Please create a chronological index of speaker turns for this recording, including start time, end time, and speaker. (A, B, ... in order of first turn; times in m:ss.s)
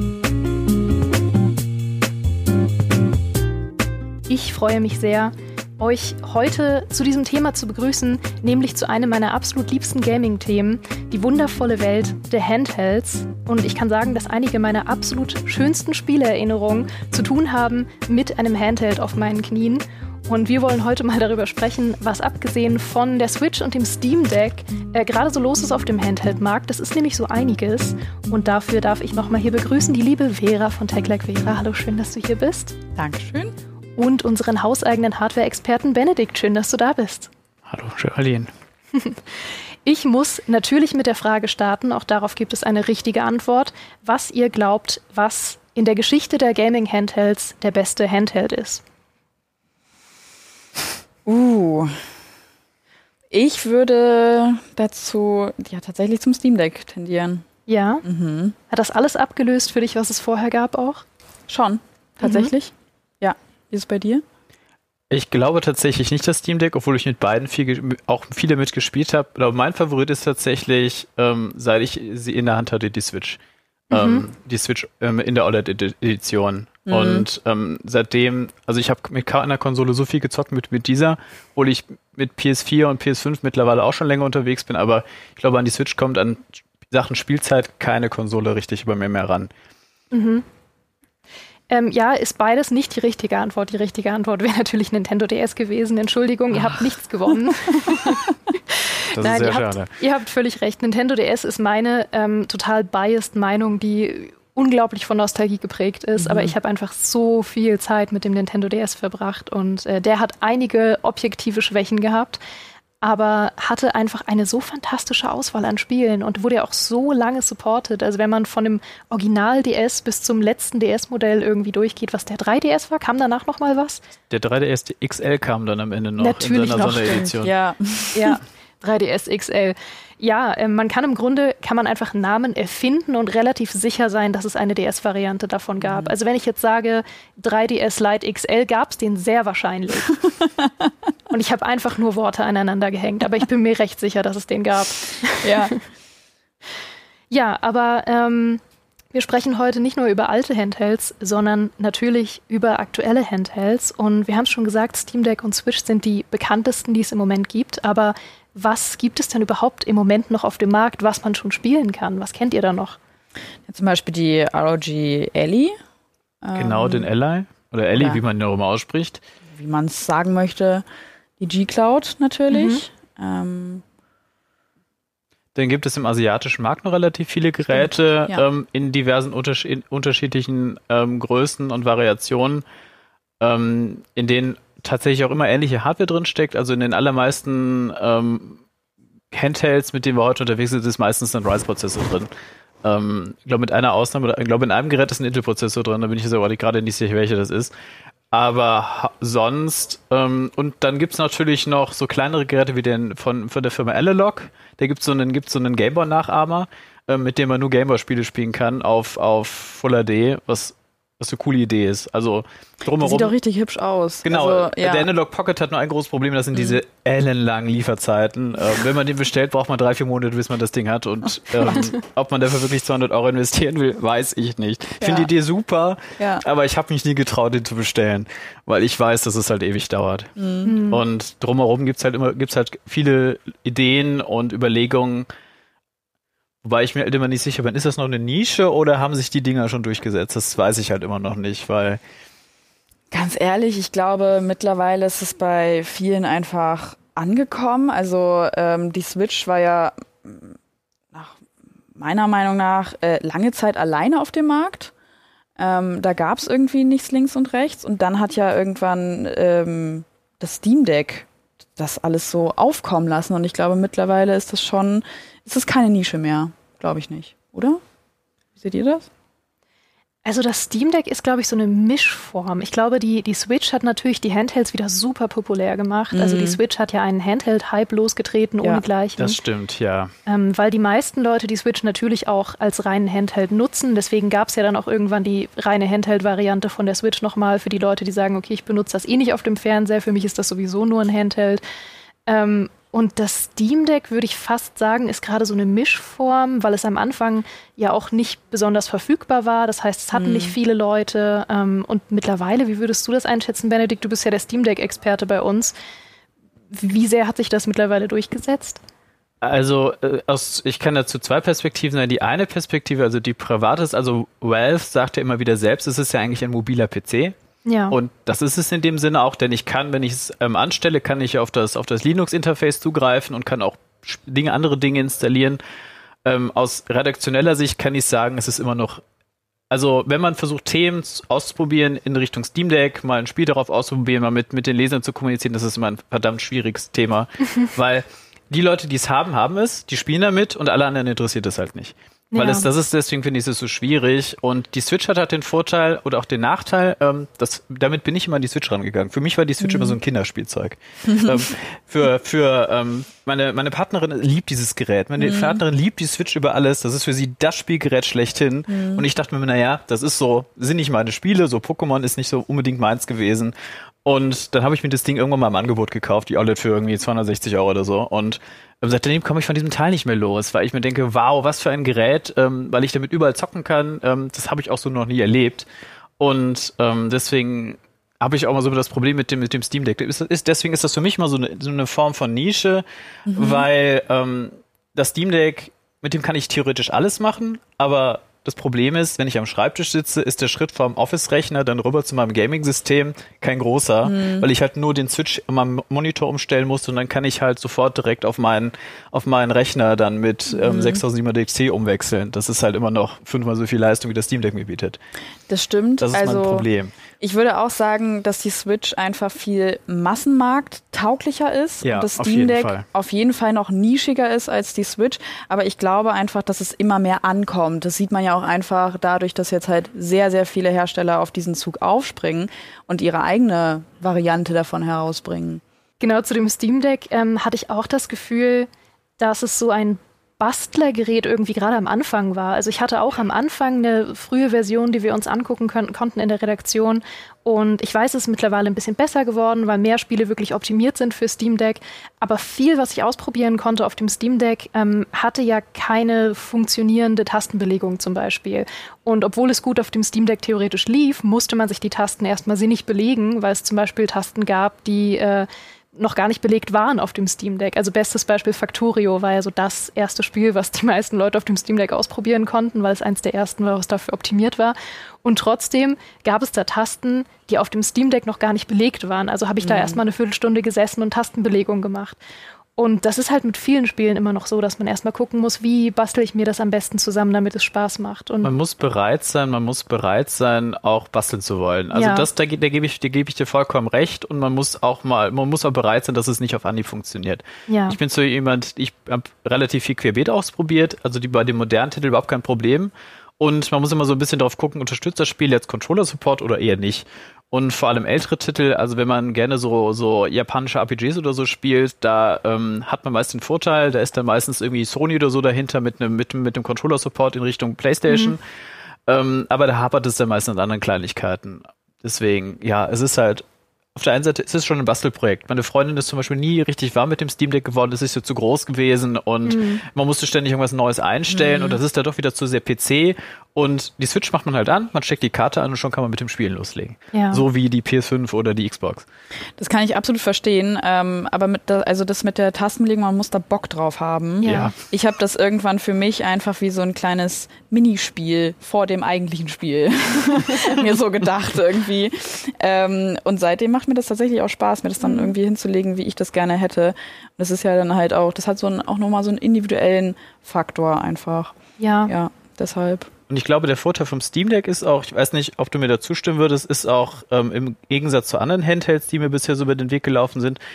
0:04.3-0:32.8 A
0:33.0-0:33.6 B
0:34.0-0:37.3 A
0:37.7-0:38.5 C
0:39.0-0:39.2 A
0:39.8-0:48.8 A
0:51.3-0:52.0 B
0:53.3-0:57.4 B
0:57.7-0:58.0 A
0:58.0-0:58.6 B
0:58.7-1:01.0 A
1:01.5-1:04.2 B
1:02.2-1:02.5 A
1:05.1-1:13.4 C
1:13.9-1:14.2 A
1:13.9-1:29.5 C
1:16.9-1:17.3 B
1:30.1-1:30.4 A
1:31.7-1:52.4 A
1:39.2-1:39.9 C
1:46.2-1:46.5 B
1:53.0-2:04.0 A
2:04.3-2:07.5 C
2:06.2-2:07.3 A
2:06.7-2:08.4 B
2:08.1-2:20.1 A
2:15.8-2:16.1 B
2:21.3-2:25.7 A
2:25.4-2:25.8 B
2:27.3-2:28.6 A
2:29.1-2:43.0 A
2:43.7-2:45.8 B
2:46.4-2:47.1 B
2:46.6-2:49.2 C
2:49.5-2:50.8 B
2:51.4-2:53.8 B
2:52.5-2:52.8 A
2:55.6-3:02.6 C
2:57.8-2:58.4 B
3:03.4-3:08.6 C
3:09.3-3:12.3 C
3:12.8-3:17.7 C
3:18.3-3:33.3 C
3:32.9-3:35.1 B
3:34.2-3:55.3 C
3:45.0-3:45.3 B
3:46.2-3:46.4 B
3:50.4-3:50.7 B
3:50.6-3:51.0 A
3:56.6-4:02.0 C
4:03.1-4:10.6 B
4:11.1-4:11.4 B
4:12.0-4:14.9 B
4:15.6-4:27.8 B
4:28.6-4:29.1 B
4:30.2-4:39.4 A
4:36.1-4:36.6 B
4:39.2-4:40.1 C
4:40.3-4:51.6 A
4:52.3-5:05.8 A
5:00.1-5:00.6 B
5:06.7-5:08.8 A
5:09.4-5:17.4 C
5:17.7-5:18.0 A
5:17.9-5:25.6 C
5:26.2-5:29.0 C
5:29.7-6:03.5 C
5:42.3-5:42.7 A
5:49.6-5:50.0 B
5:51.1-5:51.5 B
5:55.2-5:55.6 B
5:58.7-5:59.0 B
6:04.0-6:15.7 C
6:16.2-6:45.0 C
6:23.3-6:23.7 B
6:34.0-6:34.5 B
6:40.5-6:41.0 B
6:45.5-6:46.7 B
6:46.0-6:46.9 C
6:47.2-7:05.6 B
6:51.8-6:52.8 C
7:06.0-7:52.2 A
7:49.6-7:50.0 B
7:52.8-7:58.5 A
7:58.4-8:28.4 C
8:01.9-8:02.3 A
8:07.7-8:08.0 A
8:28.1-8:28.3 A
8:29.1-8:33.4 C
8:34.0-8:49.1 C
8:39.5-8:39.8 A
8:41.3-8:41.8 B
8:47.1-8:47.4 A
8:49.6-9:13.1 B
8:54.4-8:54.7 A
8:54.4-8:54.7 C
9:05.0-9:05.3 A
9:11.8-9:12.1 A
9:13.3-9:20.6 C